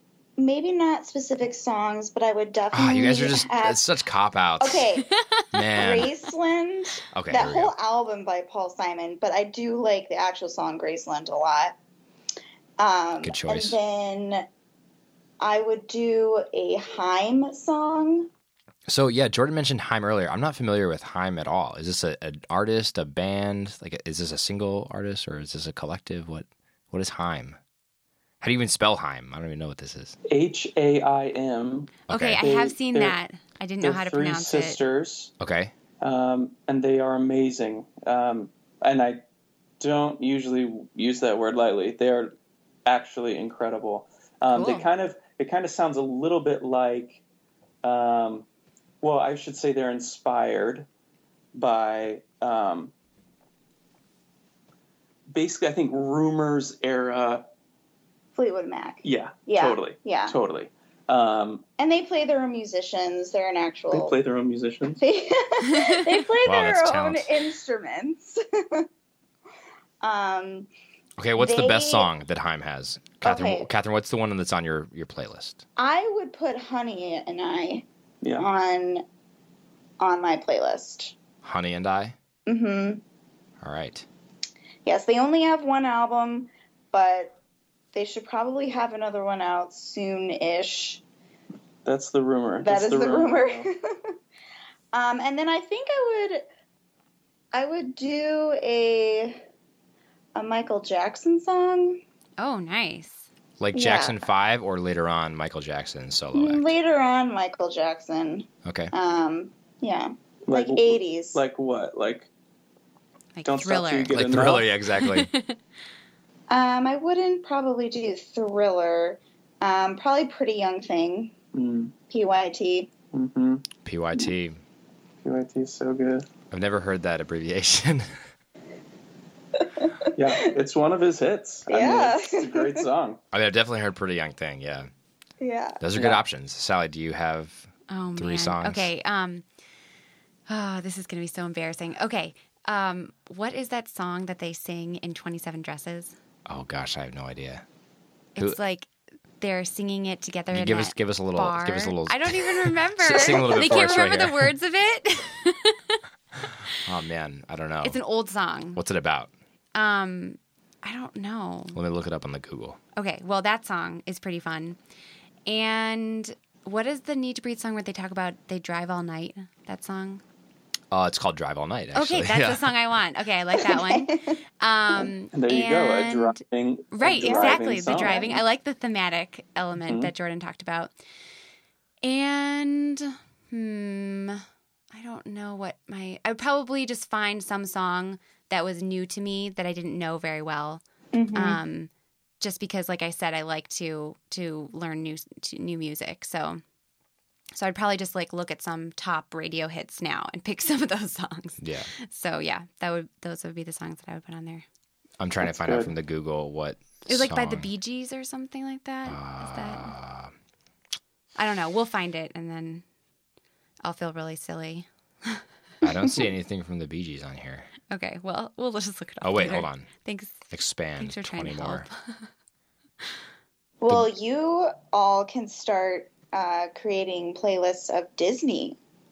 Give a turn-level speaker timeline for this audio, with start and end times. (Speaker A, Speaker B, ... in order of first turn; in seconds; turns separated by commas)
Speaker A: 0.4-3.9, Speaker B: 2.7-4.9, Speaker A: 4.6-5.1, Speaker C: 5.2-6.0, Speaker B: 5.5-6.1, Speaker A: 5.8-11.8, Speaker B: 7.1-7.7, Speaker A: 12.8-14.4, Speaker B: 13.2-13.8, Speaker A: 15.4-18.3, Speaker B: 18.9-27.6, Speaker B: 28.4-30.2, Speaker D: 30.3-33.2, Speaker B: 32.1-32.4, Speaker C: 32.1-34.8, Speaker D: 33.8-35.3, Speaker B: 35.4-35.7, Speaker D: 36.0-39.2, Speaker D: 39.8-47.2, Speaker C: 44.5-44.9, Speaker D: 47.8-48.5, Speaker D: 49.0-50.9, Speaker D: 51.5-52.9, Speaker D: 55.3-57.4, Speaker A: 58.3-60.4, Speaker D: 59.0-61.6, Speaker A: 61.8-64.2, Speaker D: 63.9-65.0, Speaker A: 65.0-68.9, Speaker B: 66.4-67.3, Speaker A: 70.0-70.7, Speaker B: 71.2-75.6, Speaker A: 71.4-72.1, Speaker A: 73.2-73.7, Speaker A: 75.8-77.8, Speaker A: 78.4-79.0, Speaker A: 80.0-81.1, Speaker B: 81.4-82.2, Speaker A: 82.5-83.0, Speaker B: 83.6-84.1, Speaker A: 84.8-87.4, Speaker A: 87.9-91.0, Speaker D: 91.8-93.7, Speaker A: 92.6-93.8, Speaker A: 94.9-96.5, Speaker A: 97.5-99.4, Speaker A: 100.3-102.0, Speaker C: 102.4-103.3, Speaker B: 103.6-106.7, Speaker A: 103.7-104.2, Speaker A: 106.3-111.4, Speaker B: 108.7-108.9, Speaker D: 110.5-112.3, Speaker C: 113.4-114.2, Speaker D: 113.5-114.7, Speaker B: 114.1-115.3, Speaker C: 114.9-115.6, Speaker A: 116.5-121.3, Speaker D: 121.5-121.9, Speaker A: 122.1-122.9, Speaker D: 123.1-123.7, Speaker B: 123.8-124.6, Speaker D: 125.2-126.3, Speaker B: 126.5-128.1, Speaker D: 130.2-133.2, Speaker A: 131.7-132.8, Speaker B: 133.3-134.9, Speaker A: 135.4-135.8, Speaker B: 135.8-138.9, Speaker D: 136.0-136.2, Speaker C: 137.9-139.4, Speaker C: 140.5-146.2, Speaker B: 146.5-147.6, Speaker C: 148.4-148.9, Speaker C: 149.4-156.0, Speaker B: 150.5-154.5, Speaker B: 156.8-158.0, Speaker C: 157.8-158.8, Speaker B: 158.8-159.3, Speaker C: 159.8-161.8, Speaker B: 161.7-162.8, Speaker C: 163.0-164.8, Speaker C: 165.5-170.2, Speaker B: 170.9-172.7, Speaker C: 171.9-176.4, Speaker A: 173.7-174.3, Speaker D: 175.3-178.2, Speaker C: 176.9-180.9, Speaker A: 177.1-178.4, Speaker D: 179.8-180.1, Speaker C: 182.0-190.8, Speaker A: 191.1-191.6, Speaker C: 191.3-196.6, Speaker C: 197.6-204.7, Speaker B: 201.6-201.9, Speaker B: 205.2-207.7, Speaker D: 205.4-205.9, Speaker C: 207.1-209.9, Speaker B: 209.1-210.3, Speaker C: 211.4-212.8, Speaker C: 213.8-215.4, Speaker B: 215.8-217.7, Speaker C: 217.9-222.3, Speaker B: 219.2-219.9, Speaker B: 220.5-221.9, Speaker A: 223.8-228.8